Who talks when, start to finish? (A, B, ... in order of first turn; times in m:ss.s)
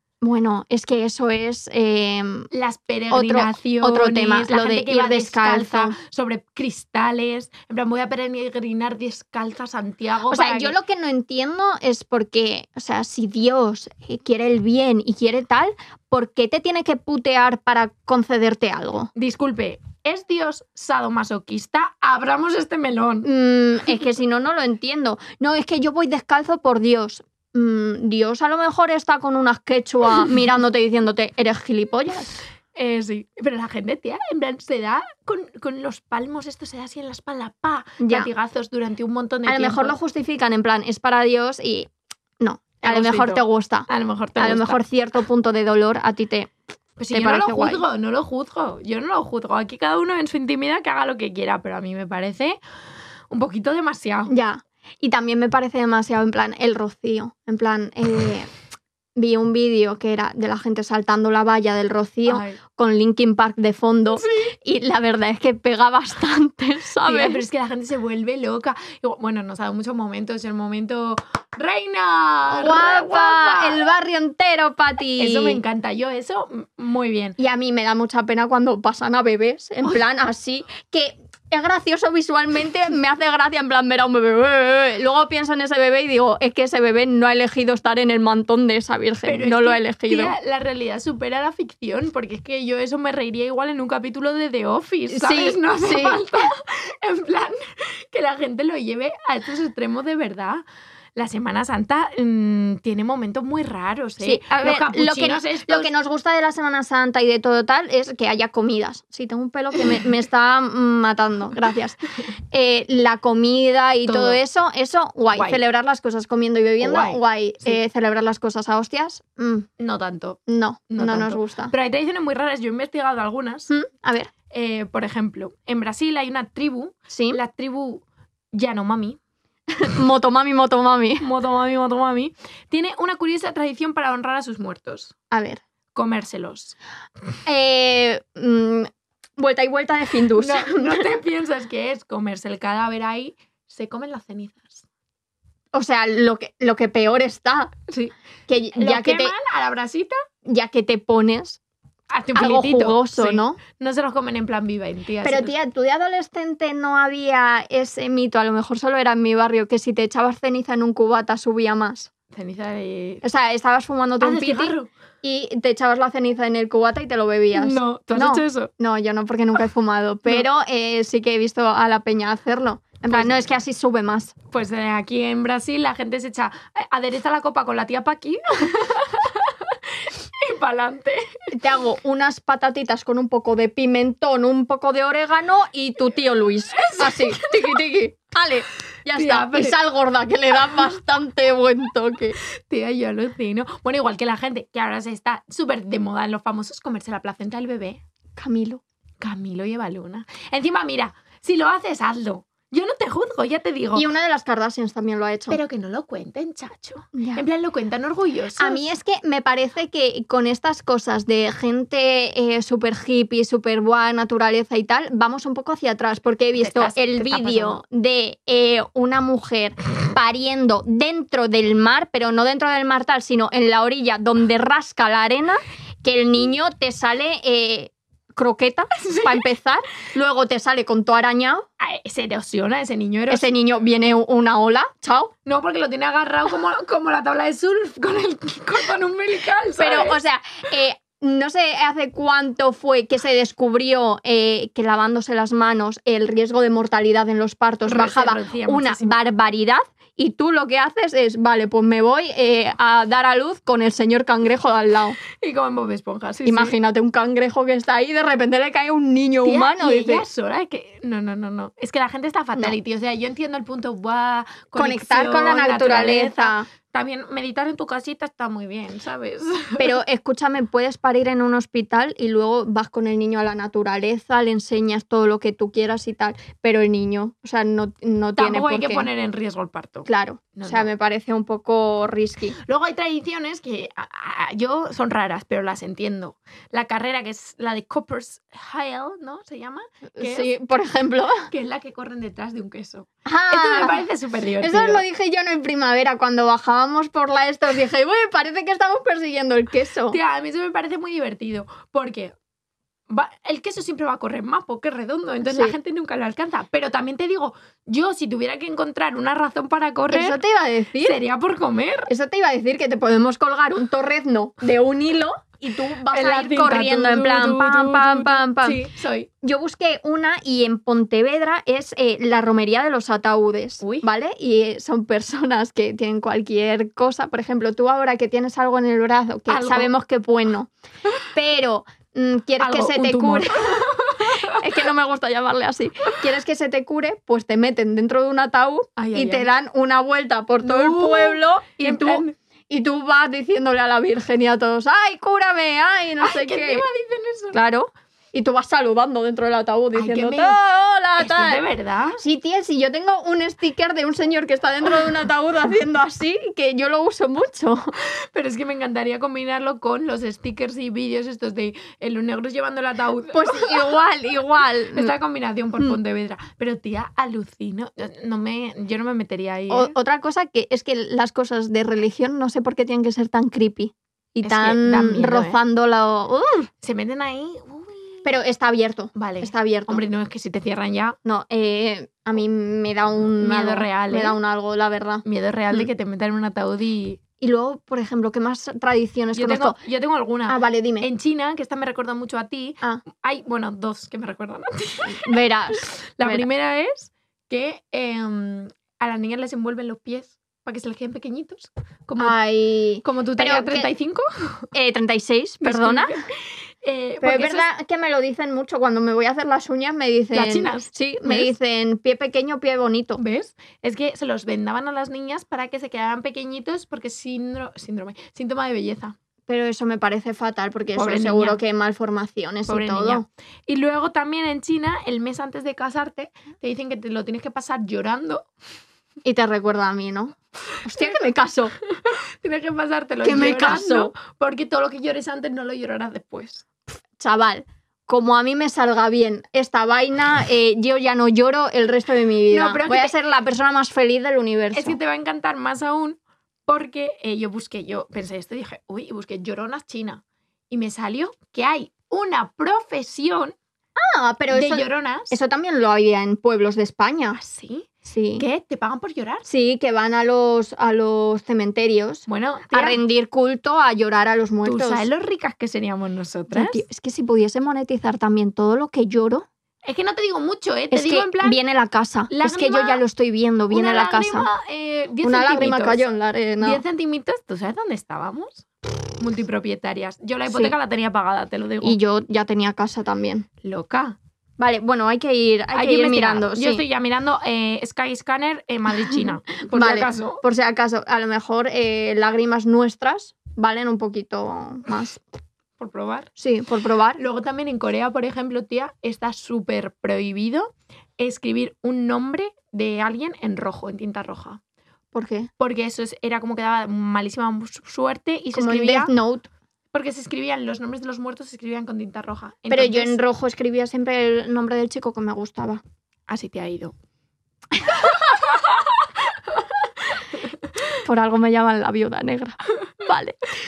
0:00.2-0:02.5 A
0:02.5-0:10.7 B
0:03.1-0:06.0 A
0:10.3-0:19.1 A
0:19.1-0:23.3 B
0:23.2-0:32.3 A
0:32.7-0:40.0 B
0:38.0-0:38.3 A
0:39.4-0:41.9 A
0:42.4-0:46.5 A
0:42.8-0:44.8 B
0:47.0-0:52.6 B
0:47.1-0:47.8 A
0:53.3-0:54.3 B
0:54.3-0:58.5 A
0:59.2-1:07.4 A
1:02.3-1:02.6 B
1:04.2-1:04.5 B
1:07.0-1:13.8 B
1:12.5-1:15.6 A
1:15.2-1:17.4 B
1:17.4-1:30.4 A
1:29.2-1:40.6 B
1:35.1-1:36.4 A
1:41.2-1:45.9 B
1:44.2-1:59.7 A
1:54.0-1:54.4 B
1:55.3-1:55.6 B
1:56.8-1:57.8 B
1:59.8-2:03.7 B
2:00.5-2:01.7 A
2:03.7-2:04.3 A
2:04.5-2:09.2 B
2:07.1-2:07.4 A
2:09.8-2:11.2 A
2:11.2-2:15.1 B
2:15.3-2:15.6 A
2:15.9-2:16.8 B
2:17.4-2:21.0 A
2:20.4-2:24.8 B
2:25.7-2:27.7 A
2:27.9-2:28.1 B
2:28.5-2:29.3 A
2:28.8-2:30.2 B
2:30.4-2:31.6 A
2:32.1-2:35.5 B
2:32.3-2:33.6 A
2:35.2-2:42.1 A
2:42.3-2:43.2 B
2:43.2-2:54.3 A
2:44.2-2:44.9 B
2:47.5-2:48.7 B
2:53.1-2:53.4 B
2:54.5-3:01.5 B
3:01.5-3:12.4 A
3:06.8-3:07.8 B
3:09.1-3:09.8 B
3:12.6-3:18.0 B
3:18.4-3:18.8 A
3:19.2-3:24.1 B
3:23.9-3:25.6 A
3:25.5-3:28.9 B
3:27.1-3:27.4 A
3:28.6-3:51.6 A
3:36.6-3:37.8 B
3:49.0-3:49.4 B
3:51.8-3:53.5 B
3:53.3-3:55.3 A
3:55.4-4:00.2 B
3:59.8-4:15.2 A
4:07.9-4:09.2 B
4:15.4-4:16.7 B
4:16.4-4:20.2 A
4:19.4-4:30.0 B
4:24.7-4:26.7 A
4:29.8-4:39.1 A
4:38.3-4:40.9 B
4:40.0-4:42.6 A
4:42.6-4:50.5 B
4:50.1-4:51.5 A
4:51.5-4:55.0 B
4:53.2-4:54.0 A
4:54.6-5:00.2 A
5:00.1-5:02.3 B
5:03.1-5:10.4 B
5:05.4-5:05.7 A
5:10.1-5:11.2 A
5:11.0-5:12.1 B
5:12.1-5:18.8 A
5:16.1-5:19.3 B
5:19.4-5:30.7 A
5:23.8-5:24.1 B
5:29.5-5:29.9 B
5:31.3-5:46.8 A
5:32.6-5:34.6 B
5:39.0-5:39.5 B
5:40.6-5:42.3 B
5:46.2-5:47.6 B
5:47.5-5:51.6 A
5:50.0-5:50.6 B
5:51.2-5:52.2 B
5:52.2-5:57.9 A
5:58.0-6:03.9 B
6:03.3-6:05.1 A
6:04.9-6:09.9 B
6:09.7-6:16.7 A
6:14.4-6:15.6 B
6:16.8-6:18.2 B
6:18.2-6:20.0 A
6:19.1-6:21.2 B
6:21.2-6:25.9 A
6:23.4-6:24.4 B
6:25.2-6:27.2 B
6:27.4-6:29.8 A
6:29.3-6:42.4 B
6:30.5-6:31.1 A
6:35.0-6:36.4 A
6:42.2-6:43.9 A
6:43.0-6:44.6 B
6:44.7-6:46.2 A
6:45.6-6:46.3 B
6:46.8-6:47.7 B
6:47.2-6:53.2 A
6:50.3-6:51.5 B
6:53.2-6:59.1 B
6:59.5-7:03.2 A
7:00.9-7:01.6 B
7:02.7-7:08.5 B
7:09.2-7:11.7 A
7:12.0-7:16.6 B
7:13.2-7:14.1 A
7:17.2-7:25.0 A
7:22.5-7:23.2 B
7:24.7-7:33.6 B
7:34.0-7:37.4 A
7:34.5-7:35.4 B
7:37.4-7:39.4 B
7:38.0-7:38.4 A
7:39.5-7:45.0 A
7:42.3-7:43.0 B
7:44.6-7:46.8 B
7:46.5-7:49.5 A
7:49.8-7:51.6 B
7:50.9-7:54.5 A
7:52.3-7:53.0 B
7:53.7-7:56.0 B
7:55.2-7:56.8 A
7:56.6-7:58.6 B
7:59.2-8:02.0 B
8:00.4-8:00.7 A
8:01.8-8:03.5 A
8:03.6-8:04.2 B
8:04.6-8:06.8 A
8:05.7-8:10.4 B
8:09.7-8:15.2 A
8:15.8-8:16.3 B
8:16.4-8:17.2 A
8:17.2-8:24.6 B
8:25.1-8:25.5 A
8:25.6-8:29.1 B
8:28.5-8:29.5 A
8:29.9-8:33.2 B
8:32.7-8:35.8 A
8:36.3-8:36.9 B
8:41.0-8:43.4 A